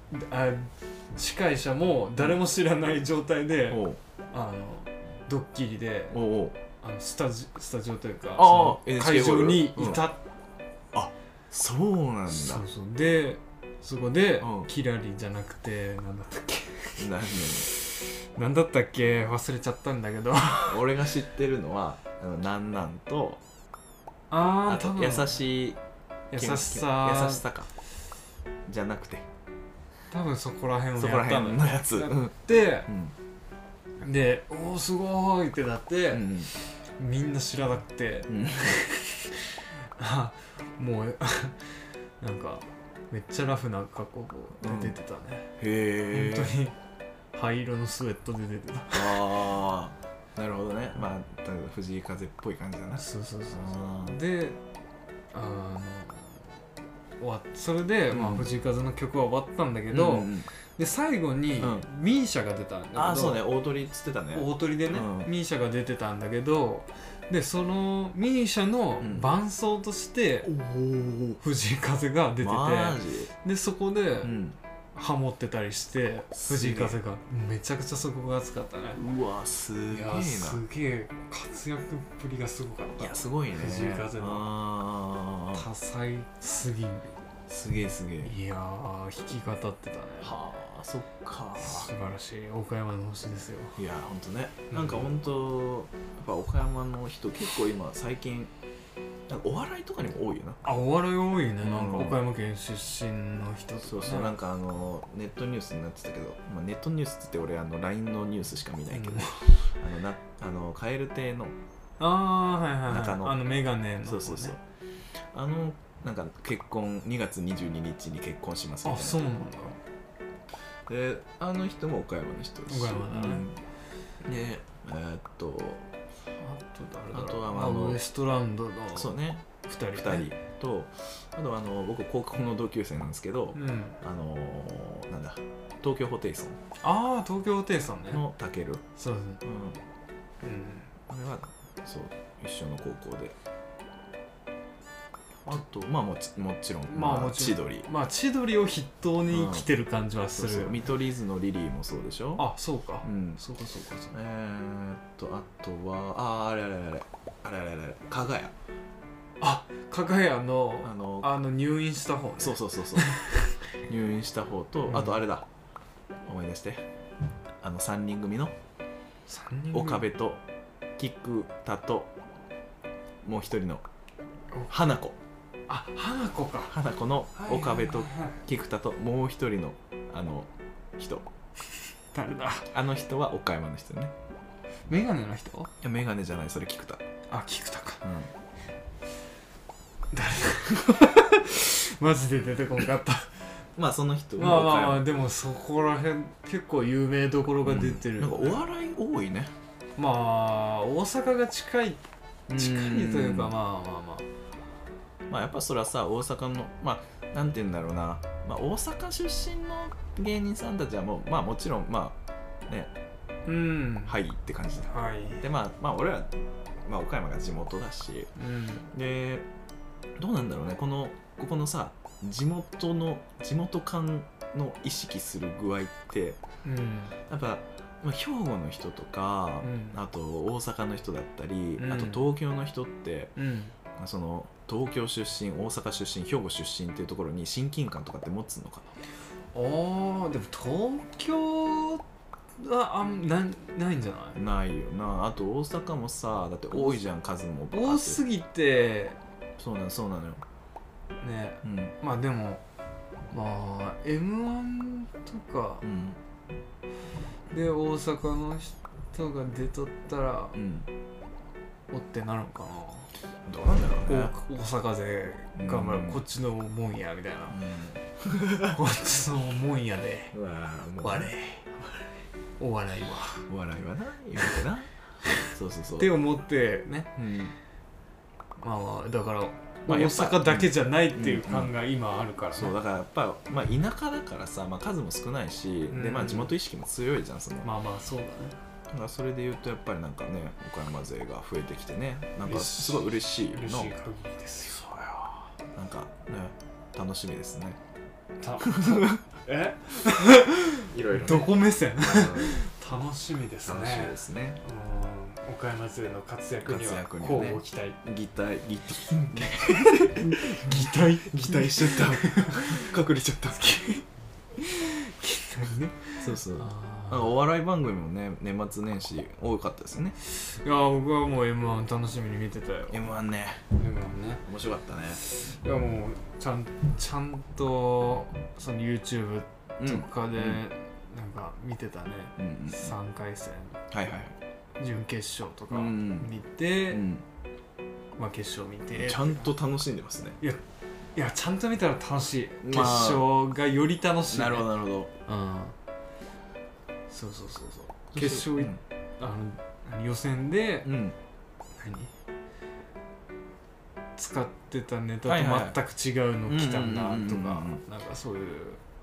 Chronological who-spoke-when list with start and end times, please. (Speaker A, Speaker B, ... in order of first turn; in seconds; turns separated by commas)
Speaker A: 0.1-6.2, Speaker B: 3.7-4.0, Speaker B: 6.1-6.6, Speaker A: 6.8-10.2, Speaker B: 8.3-10.1, Speaker B: 10.9-12.6, Speaker A: 12.3-20.9, Speaker B: 14.4-14.7, Speaker B: 17.0-17.7, Speaker B: 20.6-23.4, Speaker A: 24.3-25.4, Speaker B: 24.6-25.8, Speaker A: 26.3-27.4, Speaker B: 26.3-27.7, Speaker B: 28.6-29.3, Speaker A: 30.1-32.9, Speaker B: 30.9-33.1, Speaker A: 34.0-36.4, Speaker B: 36.1-36.5, Speaker A: 37.0-41.7, Speaker B: 38.3-38.8, Speaker A: 42.2-45.5, Speaker B: 44.6-44.9, Speaker B: 45.6-46.6, Speaker A: 46.1-46.8, Speaker A: 47.3-49.4, Speaker B: 48.9-54.2, Speaker A: 53.0-54.6, Speaker A: 55.3-56.5, Speaker A: 57.2-63.4, Speaker B: 58.1-58.5, Speaker B: 59.9-60.5, Speaker B: 61.6-61.8, Speaker B: 62.9-65.3, Speaker A: 64.3-70.5, Speaker B: 69.0-69.3, Speaker B: 70.4-71.4, Speaker A: 71.4-74.3, Speaker B: 72.4-73.3, Speaker B: 74.2-74.6, Speaker A: 74.9-79.0, Speaker B: 76.3-77.0, Speaker B: 79.0-80.6, Speaker A: 79.9-84.5, Speaker B: 83.0-85.7, Speaker A: 85.5-87.2, Speaker B: 87.5-88.3, Speaker A: 88.2-90.3, Speaker B: 90.2-91.9, Speaker A: 91.6-93.8, Speaker B: 93.8-98.5, Speaker A: 94.7-95.1, Speaker B: 99.3-100.6, Speaker A: 100.6-104.4, Speaker B: 101.6-102.2, Speaker B: 103.8-111.6, Speaker A: 108.9-109.5, Speaker A: 112.0-114.5, Speaker B: 112.9-113.4, Speaker B: 114.0-114.6, Speaker B: 115.3-119.2, Speaker A: 118.8-119.8, Speaker B: 120.9-123.6, Speaker A: 122.7-123.5, Speaker B: 124.2-125.9, Speaker A: 126.4-130.2, Speaker B: 127.1-128.0, Speaker B: 128.9-136.6, Speaker A: 133.5-134.0, Speaker A: 136.8-138.2, Speaker B: 138.1-138.8, Speaker A: 138.9-139.4, Speaker B: 139.4-139.8, Speaker A: 140.4-140.9, Speaker B: 141.1-143.4, Speaker B: 145.4-147.9, Speaker A: 146.9-150.9, Speaker B: 149.3-149.7, Speaker B: 150.3-152.5, Speaker A: 152.4-154.1, Speaker B: 153.0-153.4, Speaker B: 154.1-158.5, Speaker A: 159.4-163.5, Speaker B: 160.8-161.3, Speaker B: 162.4-163.1, Speaker B: 163.9-165.5, Speaker A: 164.9-165.2, Speaker B: 166.2-166.8, Speaker B: 167.6-168.6, Speaker A: 169.3-170.1, Speaker B: 169.7-170.4, Speaker B: 171.0-172.1, Speaker B: 173.2-173.8, Speaker B: 174.7-175.2, Speaker A: 175.7-176.7, Speaker B: 176.7-181.3, Speaker A: 177.3-178.4, Speaker A: 182.1-182.7, Speaker B: 182.7-184.1, Speaker A: 184.9-185.7, Speaker B: 185.8-187.0, Speaker A: 187.3-188.0, Speaker B: 188.0-188.3, Speaker A: 190.1-193.5, Speaker B: 193.8-195.1, Speaker A: 194.4-198.6, Speaker B: 197.6-199.5, Speaker A: 200.0-202.0, Speaker B: 202.5-203.6, Speaker A: 202.5-204.2, Speaker B: 205.3-212.9, Speaker A: 213.4-214.2, Speaker B: 214.1-216.3, Speaker A: 214.9-215.4, Speaker B: 216.8-218.3, Speaker A: 218.4-218.9, Speaker B: 218.9-219.5, Speaker B: 220.2-226.4, Speaker A: 226.6-227.2, Speaker B: 227.3-233.3, Speaker A: 229.6-230.0, Speaker A: 231.8-232.3, Speaker A: 233.3-233.7, Speaker B: 234.0-238.9, Speaker A: 239.5-242.0, Speaker A: 242.6-244.4, Speaker B: 244.3-248.2, Speaker A: 247.7-249.2, Speaker B: 249.6-250.4, Speaker A: 251.2-252.6, Speaker B: 251.6-251.9, Speaker A: 253.3-255.9, Speaker B: 255.8-256.2, Speaker A: 257.5-260.6, Speaker B: 260.5-260.9, Speaker A: 261.9-263.1, Speaker B: 263.4-264.3, Speaker A: 264.1-267.6, Speaker B: 265.6-266.2, Speaker B: 267.5-268.8, Speaker A: 268.6-270.3, Speaker B: 270.3-271.3, Speaker A: 271.0-271.8, Speaker A: 272.6-273.5, Speaker B: 273.5-274.9, Speaker B: 275.4-276.1, Speaker A: 276.0-277.1, Speaker B: 277.2-277.5, Speaker A: 278.6-282.8, Speaker B: 279.9-281.7, Speaker B: 282.5-287.7, Speaker A: 285.9-286.5, Speaker A: 287.6-288.6, Speaker B: 288.9-293.9, Speaker A: 292.4-295.3, Speaker B: 295.7-297.8, Speaker A: 298.4-308.0, Speaker B: 298.6-299.2, Speaker B: 300.9-302.6, Speaker B: 303.6-304.6, Speaker B: 306.6-314.0, Speaker A: 309.6-312.9, Speaker A: 314.6-317.3, Speaker B: 316.2-320.1, Speaker A: 320.2-323.0, Speaker B: 322.9-323.6, Speaker A: 323.8-324.4, Speaker B: 324.4-325.2, Speaker A: 325.1-333.8, Speaker B: 329.8-330.6, Speaker B: 332.4-332.9, Speaker B: 333.9-334.3, Speaker A: 334.8-337.1, Speaker B: 335.7-336.3, Speaker B: 336.9-337.2, Speaker A: 338.2-339.5, Speaker B: 338.9-340.4, Speaker A: 341.1-344.7, Speaker B: 342.6-343.3, Speaker B: 344.3-345.1, Speaker A: 345.2-345.7, Speaker A: 347.1-350.9, Speaker B: 348.1-348.8, Speaker B: 350.8-351.1, Speaker A: 351.8-352.1, Speaker A: 354.1-358.8, Speaker B: 355.2-355.8, Speaker B: 356.4-357.8